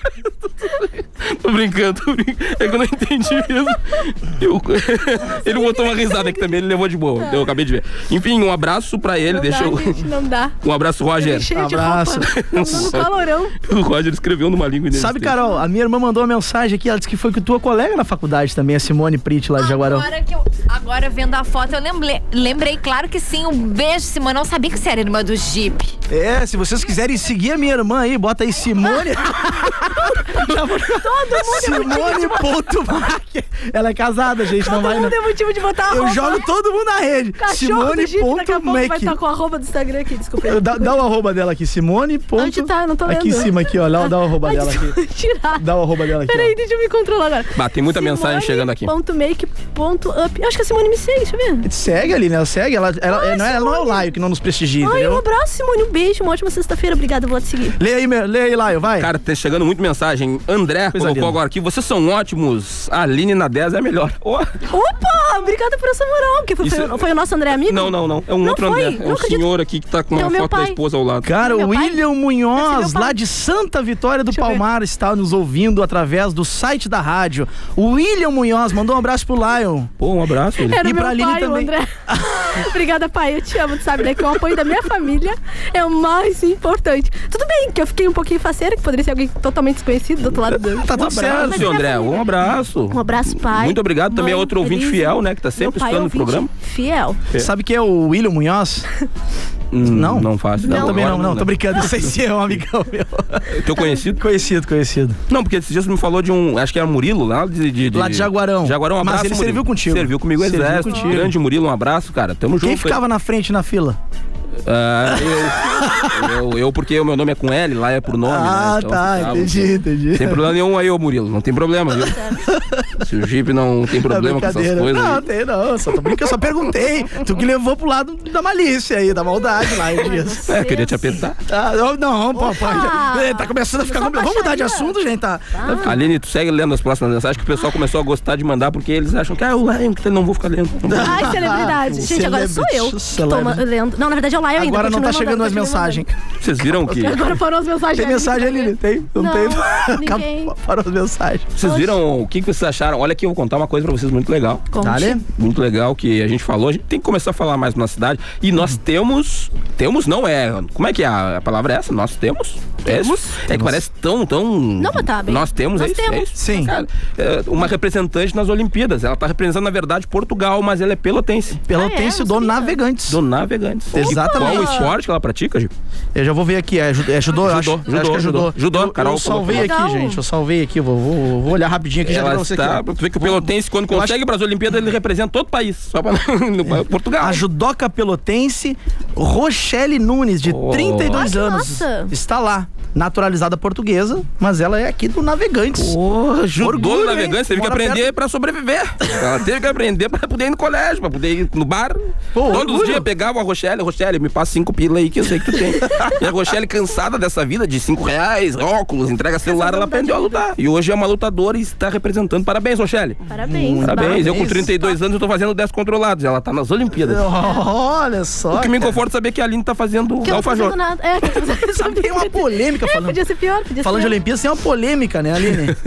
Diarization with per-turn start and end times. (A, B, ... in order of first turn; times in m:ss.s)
0:00.6-0:10.0 A
0:05.3-0:06.4 B
0:09.3-0:10.5 B
0:10.6-0:11.5 A
0:11.2-0:13.5 B
0:11.5-0:12.9 C
0:12.3-0:15.3 A
0:14.9-0:20.1 C
0:19.6-0:26.0 D
0:26.1-0:35.2 C
0:29.7-0:32.7 B
0:34.6-0:36.5 B
0:35.8-0:39.2 C
0:37.4-0:41.0 B
0:40.4-0:45.0 C
0:42.4-0:45.6 B
0:45.6-0:46.5 C
0:46.3-0:51.7 B
0:47.6-0:48.9 A
0:51.6-0:55.2 C
0:53.1-0:54.1 B
0:54.8-0:57.8 B
0:57.8-0:59.1 C
0:59.0-1:04.5 A
1:00.9-1:01.4 C
1:04.7-1:09.5 B
1:06.6-1:07.0 A
1:07.6-1:11.3 A
1:10.1-1:10.8 B
1:11.2-1:19.9 C
1:11.4-1:12.0 B
1:12.6-1:13.2 B
1:14.3-1:14.6 B
1:20.0-1:20.8 A
1:20.7-1:32.3 B
1:20.8-1:22.4 C
1:30.5-1:31.8 C
1:30.8-1:36.5 A
1:32.9-1:37.2 B
1:37.4-1:38.9 C
1:39.7-1:41.9 A
1:39.8-1:45.2 C
1:40.6-1:41.2 B
1:43.5-1:44.2 A
1:45.3-1:53.0 A
1:47.9-1:51.4 C
1:50.9-1:51.2 B
1:52.6-1:54.0 C
1:54.6-2:02.2 A
1:55.1-1:56.3 C
1:58.2-2:00.5 C
2:02.0-2:02.4 B
2:02.5-2:03.0 C
2:03.0-2:05.3 A
2:04.0-2:10.5 C
2:09.9-2:11.2 B
2:10.5-2:11.4 A
2:11.5-2:16.0 C
2:12.4-2:15.0 B
2:15.6-2:16.0 B
2:15.7-2:21.7 A
2:20.9-2:23.6 C
2:20.9-2:26.0 B
2:24.6-2:26.2 C
2:26.4-2:27.4 A
2:26.8-2:30.5 B
2:28.0-2:31.6 C
2:31.6-2:34.7 A
2:31.6-2:32.0 B
2:34.7-2:35.2 B
2:34.8-2:35.2 C
2:35.3-2:51.6 A
2:42.9-2:43.4 B
2:43.5-2:43.8 C
2:44.8-2:46.7 B
2:46.4-2:46.8 C
2:51.6-2:53.2 C
2:51.8-2:52.8 B
2:53.1-2:55.7 A
2:53.9-2:54.8 C
2:54.0-2:54.9 B
2:56.2-3:04.2 C
2:57.4-2:59.7 A
2:59.5-3:00.2 B
3:02.0-3:07.4 A
3:07.2-3:16.0 C
3:10.5-3:11.3 A
3:11.1-3:12.1 B
3:15.8-3:33.2 A
3:16.6-3:18.1 C
3:22.4-3:23.1 C
3:29.5-3:30.4 B
3:33.3-3:35.0 B
3:33.4-3:34.7 C
3:33.8-3:37.2 A
3:37.0-3:39.0 C
3:38.5-3:40.8 A
3:40.2-3:44.2 B
3:41.4-3:43.2 C
3:43.8-3:45.8 C